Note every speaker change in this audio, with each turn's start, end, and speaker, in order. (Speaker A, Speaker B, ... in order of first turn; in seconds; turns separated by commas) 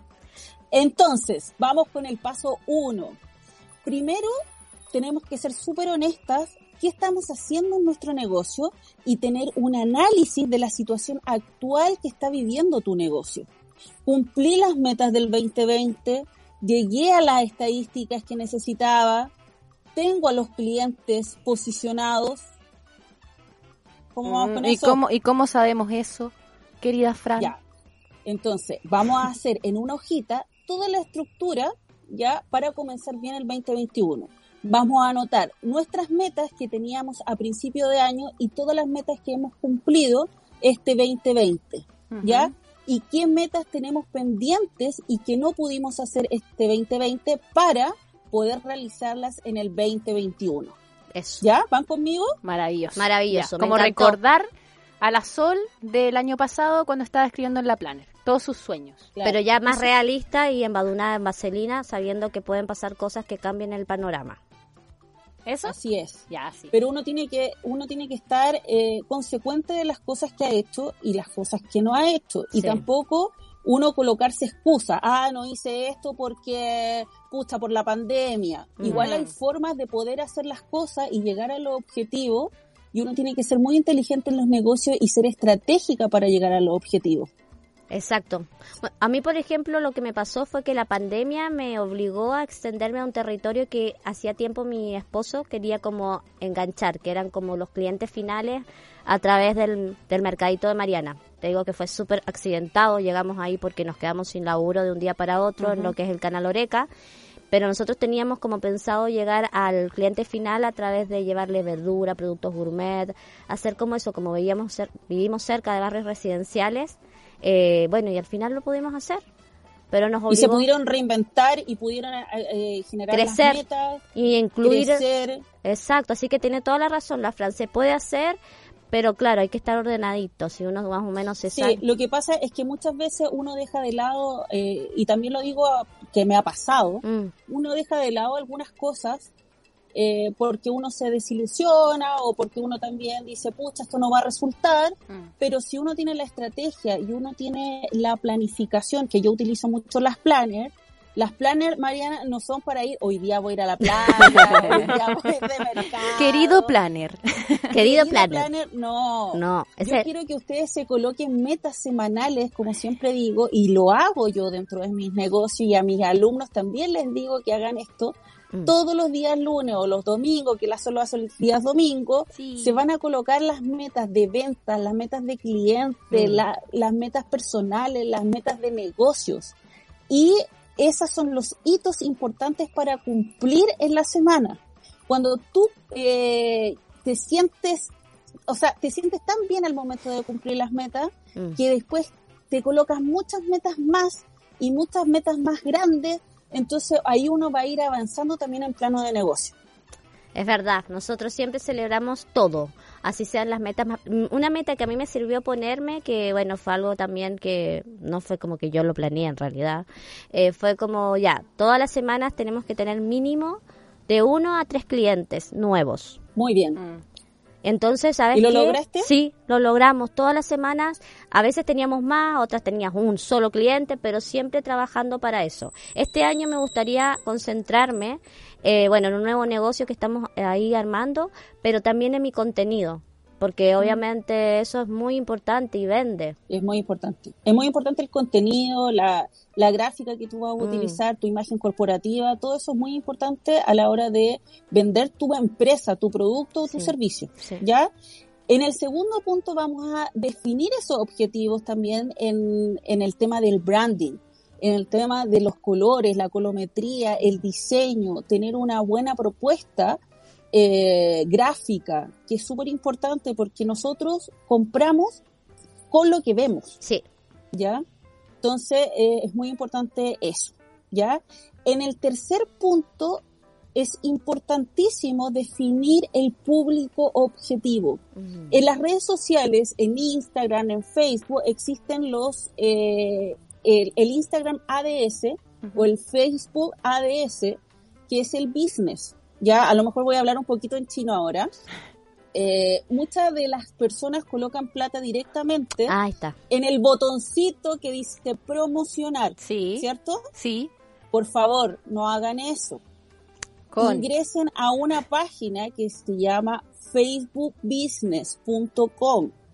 Speaker A: 0.7-3.2, Speaker A: 3.8-4.3, Speaker A: 4.9-13.5, Speaker A: 14.1-19.3, Speaker A: 19.9-22.4, Speaker A: 24.1-25.0, Speaker B: 24.2-27.5, Speaker A: 28.2-50.7, Speaker B: 42.1-42.5, Speaker C: 51.1-51.4, Speaker A: 51.4-52.3, Speaker B: 52.4-54.5, Speaker C: 53.0-54.2, Speaker B: 55.0-59.1, Speaker C: 59.2-64.4, Speaker B: 65.5-65.7, Speaker A: 65.6-87.3, Speaker B: 66.3-66.7, Speaker C: 78.8-79.1, Speaker B: 78.9-79.3, Speaker C: 87.9-106.9, Speaker B: 105.6-105.9, Speaker C: 107.5-119.2, Speaker C: 119.9-120.7, Speaker A: 120.3-124.0, Speaker C: 123.1-123.6, Speaker C: 124.1-125.0, Speaker A: 124.6-125.4, Speaker C: 125.6-128.4, Speaker C: 128.9-131.8, Speaker A: 131.5-139.3, Speaker C: 137.0-137.3, Speaker A: 139.9-156.7, Speaker B: 154.2-154.9, Speaker C: 154.3-154.7, Speaker B: 156.1-157.6, Speaker C: 157.7-158.5, Speaker A: 157.7-168.1, Speaker C: 159.3-160.1, Speaker A: 168.7-179.5, Speaker B: 172.3-172.8, Speaker C: 176.1-176.4, Speaker A: 180.1-187.9, Speaker A: 188.5-199.5, Speaker C: 200.3-216.2, Speaker A: 216.3-216.8, Speaker B: 216.8-217.0, Speaker C: 217.6-236.4, Speaker A: 218.3-219.1, Speaker A: 236.5-247.9, Speaker C: 240.6-241.0, Speaker C: 246.7-247.6, Speaker A: 248.5-260.0, Speaker A: 260.5-265.2, Speaker A: 265.9-266.8, Speaker A: 267.5-267.8, Speaker A: 268.4-273.2, Speaker A: 273.7-291.5, Speaker C: 278.2-278.6, Speaker B: 285.6-285.9, Speaker A: 292.3-295.9, Speaker C: 295.9-296.4, Speaker A: 296.5-300.2, Speaker B: 299.4-300.7, Speaker A: 301.1-302.8, Speaker B: 303.7-304.1, Speaker A: 303.8-309.3